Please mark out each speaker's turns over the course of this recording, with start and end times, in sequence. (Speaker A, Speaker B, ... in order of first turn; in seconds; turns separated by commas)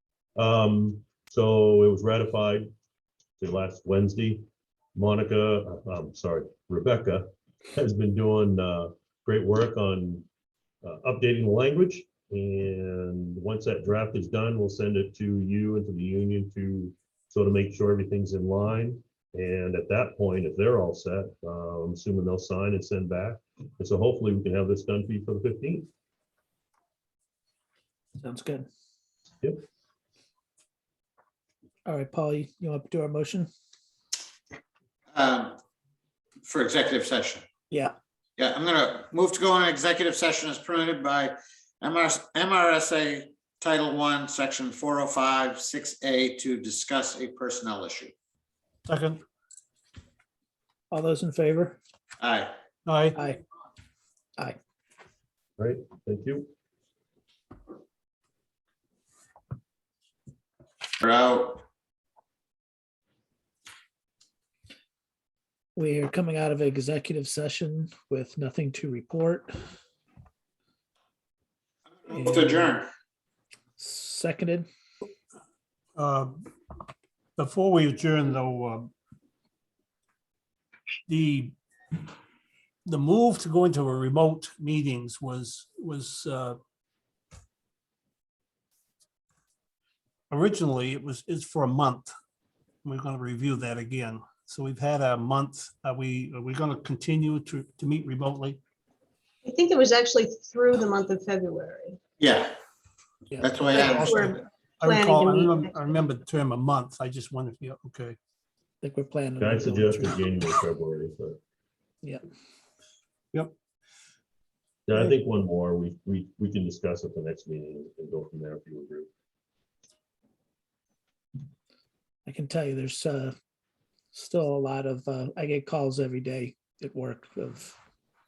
Speaker A: 0.4-2.7, Speaker A: 3.4-4.4, Speaker A: 5.0-10.3, Speaker A: 10.8-25.9, Speaker B: 28.2-28.7, Speaker B: 31.9-33.5, Speaker C: 35.1-35.6, Speaker C: 36.4-37.5, Speaker C: 38.4-48.1, Speaker D: 48.9-49.2, Speaker B: 50.9-51.8, Speaker C: 52.2-52.6, Speaker D: 52.9-53.2, Speaker A: 55.6-56.5, Speaker C: 61.0-61.6, Speaker B: 65.8-69.5, Speaker C: 72.0-72.9, Speaker B: 72.1-72.8, Speaker B: 73.8-74.7, Speaker D: 76.0-76.4, Speaker D: 77.4-78.9, Speaker D: 81.1-81.6, Speaker D: 82.9-86.6, Speaker D: 90.3-92.1, Speaker D: 92.8-98.6, Speaker E: 99.5-102.0, Speaker C: 102.2-102.6, Speaker B: 103.3-104.2, Speaker C: 103.4-104.4, Speaker E: 103.7-105.9, Speaker D: 104.8-108.2, Speaker B: 108.8-110.2, Speaker A: 109.4-111.4, Speaker A: 114.9-119.1, Speaker B: 122.3-123.3, Speaker B: 124.1-127.8